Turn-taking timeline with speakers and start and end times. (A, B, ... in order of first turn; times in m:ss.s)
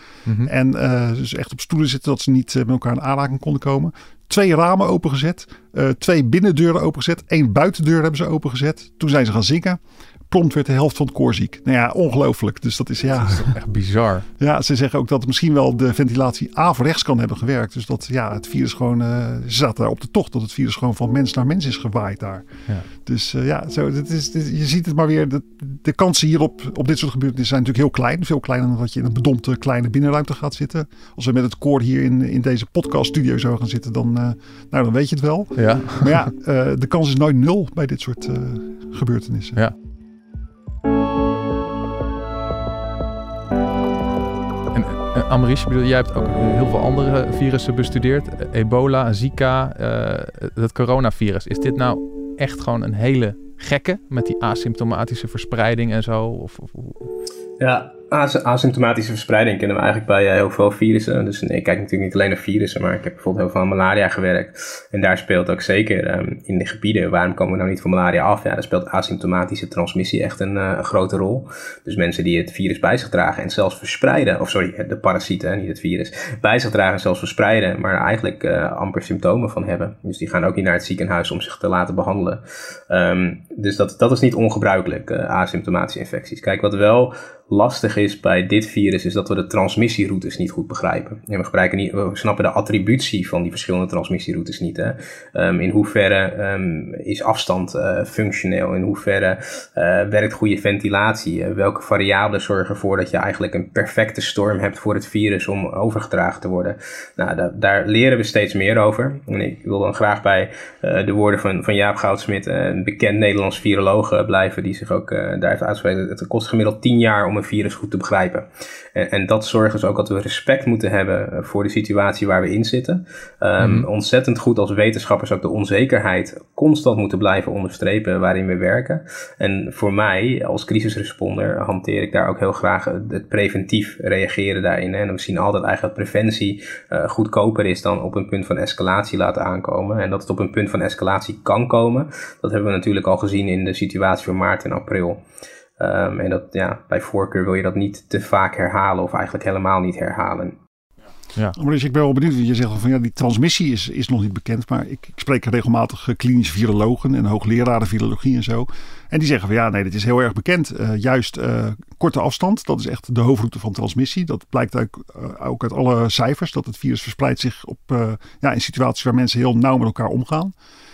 0:00.4-0:13.6 A
0:13.2-0:14.2 B
0:14.4-0:22.5 A
0:23.0-0:39.6 A
0:35.6-0:36.2 B
0:44.7-0:57.1 B
0:57.6-2:25.2 C
2:03.6-2:03.9 B
2:25.8-2:30.6 C
2:31.5-2:50.5 A